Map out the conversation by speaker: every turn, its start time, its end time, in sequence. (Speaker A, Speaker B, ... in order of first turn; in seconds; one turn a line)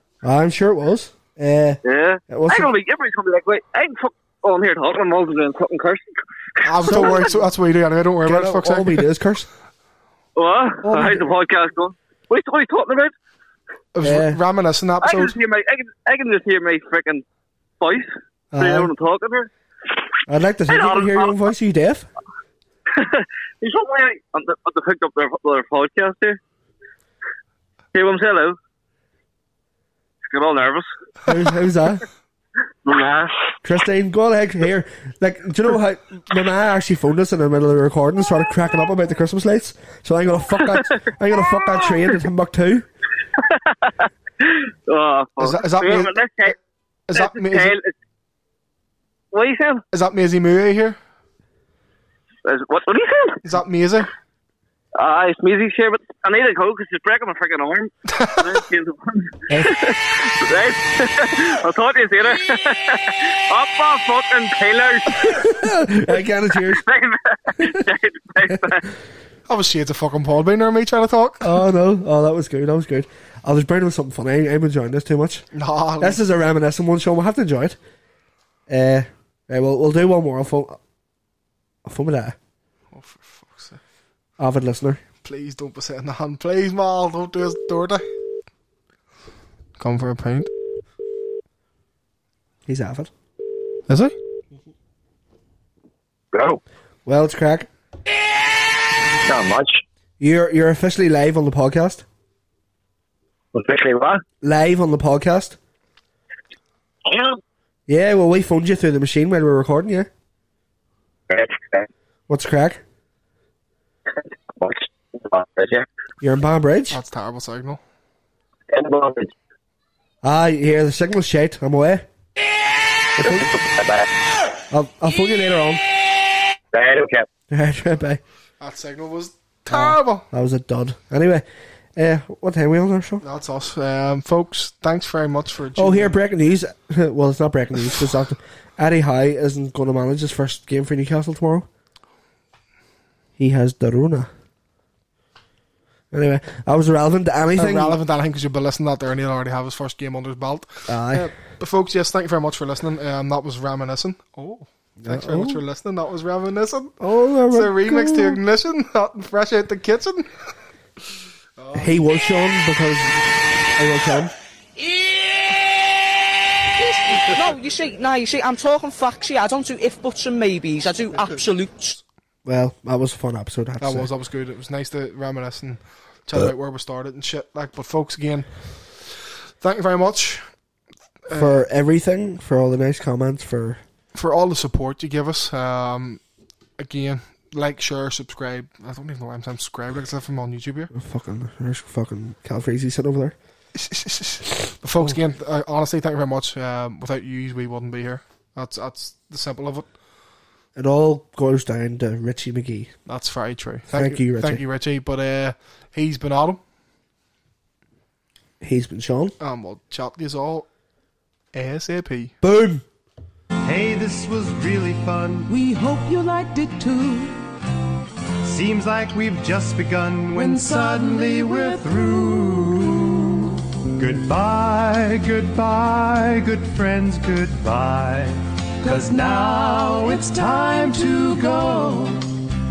Speaker A: 0.2-2.7
Speaker B: 1.8-7.3
Speaker C: 6.6-9.1
Speaker A: 6.8-7.3
Speaker A: 8.3-9.5
Speaker B: 10.4-13.1
Speaker A: 10.8-11.2
Speaker C: 13.9-15.4
Speaker A: 14.0-14.4
Speaker B: 15.0-17.2
Speaker B: 17.8-19.5
Speaker A: 18.5-18.9
Speaker A: 20.3-22.1
Speaker B: 20.7-21.4
Speaker B: 22.9-26.4
Speaker B: 27.9-28.6
Speaker B: 30.3-30.9
Speaker A: 31.3-32.0
Speaker B: 32.8-33.3
Speaker A: 33.6-42.9
Speaker B: 41.5-42.2
Speaker B: 43.4-46.5
Speaker C: 45.4-46.1
Speaker C: 47.1-47.8
Speaker B: 47.1-47.9
Speaker B: 49.3-49.8
Speaker C: 49.9-51.0
Speaker B: 52.5-53.5
Speaker C: 53.5-54.1
Speaker B: 55.0-65.5
Speaker C: 58.2-58.6
Speaker A: 65.5-66.8
Speaker B: 66.6-68.9
Speaker C: 69.5-71.6
Speaker A: 71.4-75.5
Speaker C: 75.5-76.2
Speaker A: 76.0-77.8
Speaker A: 78.7-80.8
Speaker A: 81.8-82.4
Speaker C: 82.9-83.8
Speaker A: 84.4-85.0
Speaker C: 85.2-88.1
Speaker C: 89.8-90.5
Speaker A: 92.7-93.1
Speaker C: 93.9-94.1
Speaker D: 96.3-96.6
Speaker A: 97.0-97.7
Speaker D: 99.2-99.8
Speaker A: 100.2-102.0
Speaker D: 103.5-104.2
Speaker A: 104.4-105.6
Speaker D: 107.0-107.4
Speaker A: 107.9-110.1
Speaker D: 111.3-111.9
Speaker A: 112.3-112.8
Speaker D: 114.5-115.9
Speaker A: 116.2-117.0
Speaker C: 116.9-117.8
Speaker D: 118.7-119.3
Speaker A: 120.2-122.0
Speaker A: 123.2-123.6
Speaker D: 123.2-124.1
Speaker A: 124.7-125.8
Speaker D: 126.7-127.3
Speaker A: 127.5-128.2
Speaker C: 128.6-130.2
Speaker A: 129.7-131.4
Speaker A: 132.0-133.2
Speaker C: 133.2-136.2
Speaker A: 135.8-141.7
Speaker A: 143.4-144.3
Speaker A: 146.1-148.0
Speaker C: 147.6-160.4
Speaker A: 150.9-151.3
Speaker A: 155.0-155.6
Speaker A: 157.0-158.4
Speaker C: 161.6-161.9
Speaker A: 161.7-163.2
Speaker A: 163.8-164.3
Speaker E: 167.3-172.0
Speaker A: 172.4-174.1
Speaker C: 173.8-180.5
Speaker C: 181.3-181.7
Speaker A: 181.3-183.8
Speaker C: 184.1-186.2
Speaker C: 186.8-190.9
Speaker A: 190.9-193.4
Speaker C: 193.8-199.9
Speaker A: 200.8-202.9
Speaker C: 203.1-206.6
Speaker A: 203.9-204.6
Speaker A: 208.6-209.3
Speaker C: 209.4-210.7
Speaker C: 211.5-212.3
Speaker A: 212.4-212.8
Speaker F: 213.6-217.5
Speaker F: 218.4-232.4